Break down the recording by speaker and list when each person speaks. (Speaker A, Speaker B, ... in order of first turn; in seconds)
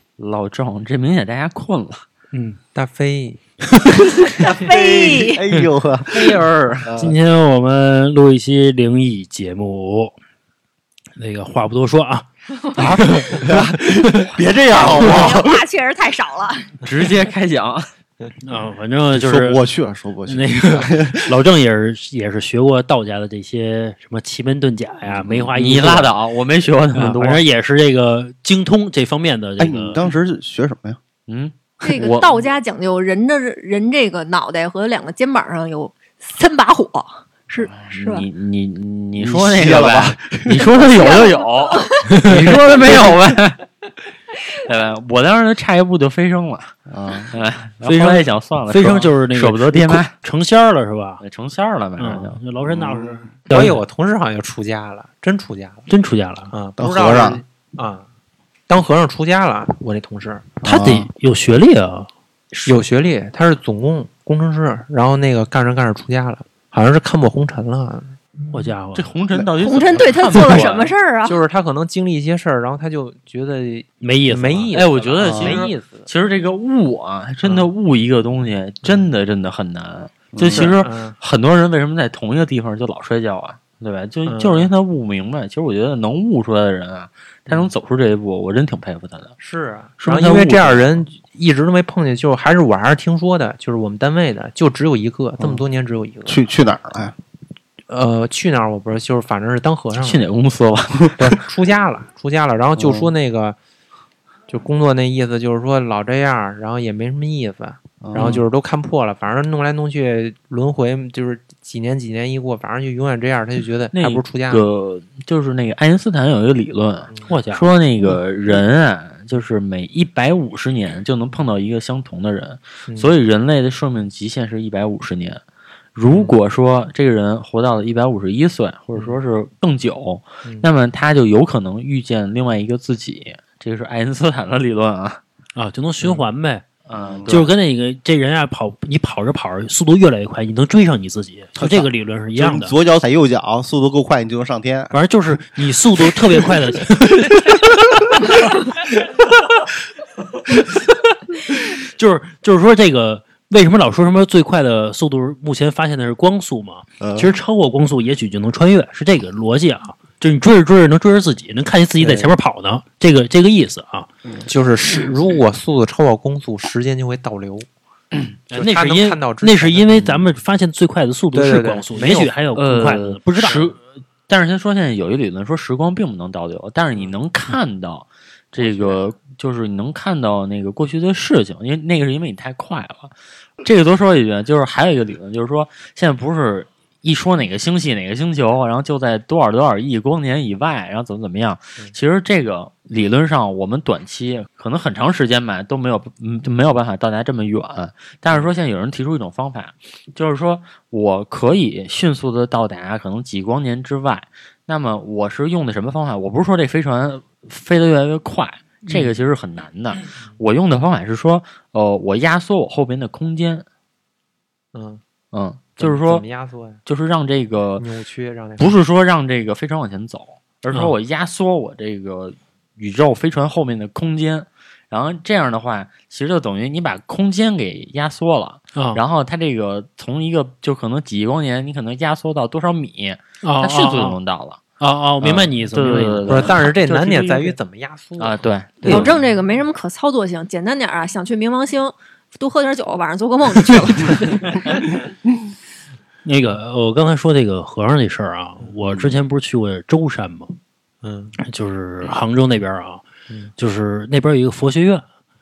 Speaker A: 0.2-2.0, 6.1-6.9, 16.8-17.8, 25.5-27.4, 31.3-32.3, 37.6-43.6, 44.7-46.7, 47.3-50.1, 51.2-52.4, 68.9-70.9, 74.7-89.3, 90.0-91.0, 100.0-101.2, 113.9-125.4, 126.0-135.2, 136.9-137.5, 172.5-173.8, 174.3-213.7, 215.3-216.2, 216.9-217.8, 218.6-234.6, 235.2-236.7, 238.2-239.2
Speaker B: 2.3-2.6, 7.0-10.2, 11.2-14.3, 18.4-19.6, 20.3-26.1, 26.9-30.0, 42.1-42.6, 47.8-51.2, 52.0-53.8, 55.9-56.5, 60.6-62.1, 68.5-69.1, 74.0-74.7, 117.3-117.7, 135.6-136.6, 137.3-142.7, 144.9-147.7, 148.3-148.9, 150.5-164.1, 168.5-173.8, 228.8-229.0, 233.4-234.2, 234.8-237.6, 246.2-250.5, 251.4-253.0, 253.6-255.0
Speaker C: 2.7-3.4, 53.5-55.9, 56.5-58.1, 58.7-60.5, 62.7-68.2, 70.4-76.1, 77.4-77.7, 80.5-81.2, 84.3-84.7, 89.4-96.4, 97.9-100.2, 101.2-103.6, 104.5-114.6, 126.1-126.3, 162.0-162.3, 164.5-167.7, 168.5-170.1, 171.3-172.3, 214.7-215.0, 215.8-216.8, 217.8-218.7, 236.3-239.1, 251.0-251.4
Speaker D: 4.3-5.4, 12.6-13.2, 14.7-16.7, 31.8-38.3, 40.9-42.1, 62.5-62.8, 69.6-71.4, 238.9-244.7
Speaker E: 4.4-7.1, 12.8-15.6, 19.1-21.3, 25.1-25.5, 29.6-31.0, 39.2-41.0, 46.9-47.4, 52.7-53.3, 56.8-57.4, 60.6-61.1, 75.2-75.7, 80.3-80.8, 96.3-97.2, 102.8-103.1, 108.0-108.5, 137.0-137.4, 141.6-144.9, 157.0-157.3, 248.9-249.2